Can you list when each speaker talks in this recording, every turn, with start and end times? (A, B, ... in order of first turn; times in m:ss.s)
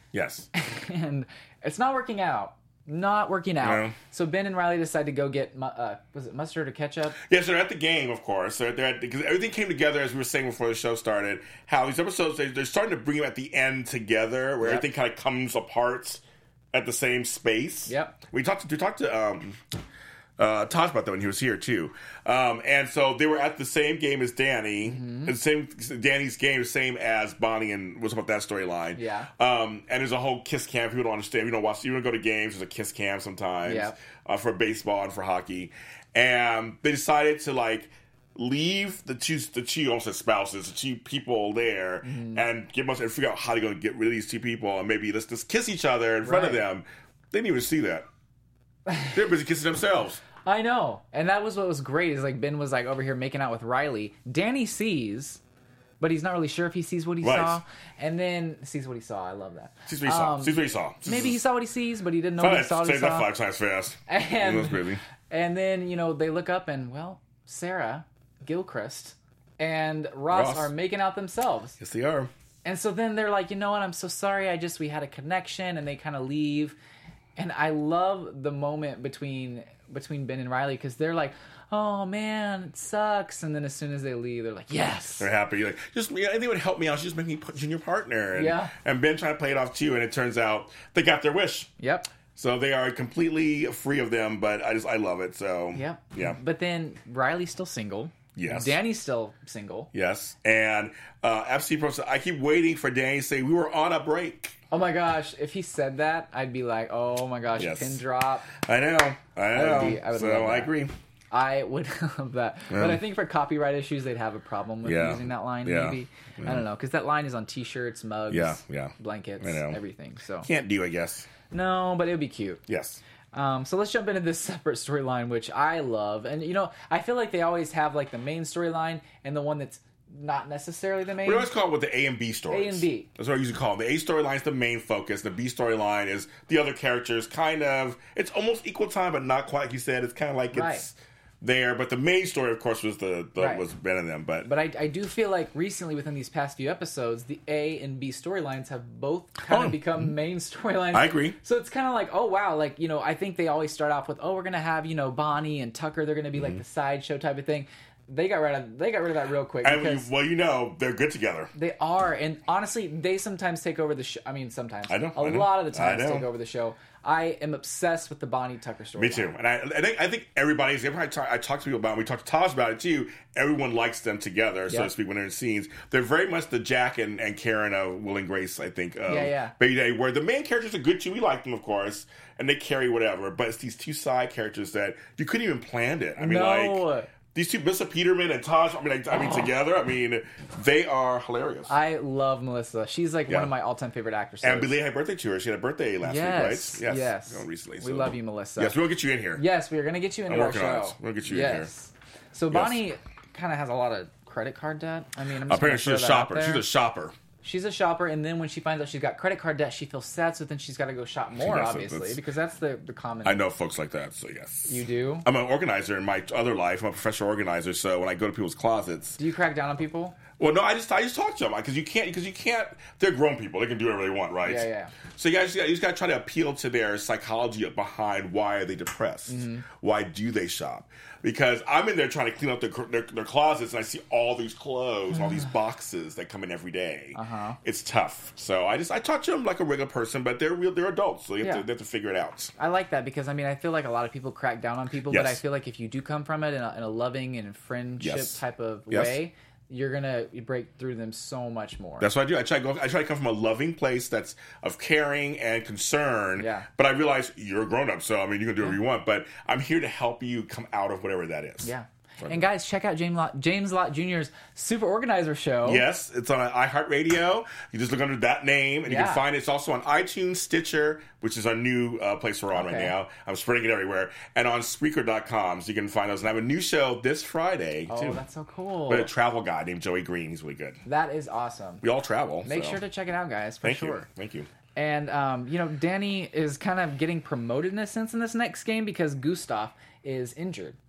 0:00.1-0:00.5 A
0:00.5-0:07.2 B
0:03.6-0:04.0 A
0:07.2-0:19.6 A
0:14.6-0:14.9 B
0:17.9-0:18.2 B
0:20.4-0:48.0 A
0:24.8-0:25.3 B
0:29.0-0:29.3 B
0:33.6-0:34.0 B
0:42.0-0:42.5 B
0:46.2-0:46.6 B
0:49.1-0:50.2 A
0:50.4-0:55.4 B
0:56.0-1:03.3 B
0:57.2-0:57.6 A
0:59.9-1:01.4 A
1:02.4-1:05.0 A
1:04.1-1:11.8 B
1:10.3-1:10.7 A
1:11.8-1:12.3 A
1:12.6-1:16.8 B
1:17.4-1:25.3 B
1:25.2-1:31.7 A
1:28.3-1:28.7 B
1:31.8-1:32.1 B
1:32.3-1:36.4 A
1:35.7-1:39.9 B
1:38.4-1:38.8 A
1:39.9-1:44.6 A
1:44.7-1:48.5 B
1:47.6-1:48.0 A
1:48.5-1:50.9 A
1:49.5-1:50.7 B
1:51.3-2:00.5 B
1:52.7-1:53.0 A
1:54.8-1:56.6 A
1:58.3-1:59.8 A
2:00.4-2:01.3 A
2:01.5-2:02.6 B
2:02.7-2:03.0 A
2:03.3-2:11.5 B
2:11.2-2:24.5 A
2:12.5-2:13.1 B
2:20.5-2:20.9 B
2:23.4-2:23.6 B
2:24.4-2:40.1 B
2:29.4-2:30.1 A
2:30.9-2:31.4 A
2:36.3-2:36.6 A
2:39.6-2:41.5 A
2:41.5-2:49.3 B
2:44.9-2:46.3 A
2:49.0-3:11.7 A
2:59.0-2:59.5 B
3:06.2-3:07.1 B
3:09.1-3:09.5 B
3:11.7-3:14.7 B
3:14.4-3:19.4 A
3:16.0-3:18.8 B
3:19.4-3:26.6 B
3:20.3-3:21.7 A
3:22.5-3:22.8 A
3:25.4-3:27.2 A
3:27.4-3:33.4 B
3:31.4-3:32.2 A
3:33.2-3:39.2 A
3:34.7-3:35.2 B
3:39.2-3:40.2 B
3:40.4-4:02.5 A
3:44.4-3:44.9 B
3:49.3-3:49.6 B
3:57.1-3:57.6 B
4:02.6-4:12.1 B
4:05.1-4:05.4 A
4:08.0-4:09.2 A
4:12.0-4:22.4 A
4:16.4-4:16.7 B
4:21.6-4:25.8 B
4:25.6-4:38.2 A
4:28.8-4:29.2 B
4:32.5-4:32.9 B
4:37.9-4:39.1 B
4:38.9-4:40.8 A
4:40.8-4:41.8 B
4:41.8-4:42.8 A
4:42.4-4:44.1 B
4:43.6-4:44.5 A
4:44.8-4:50.8 B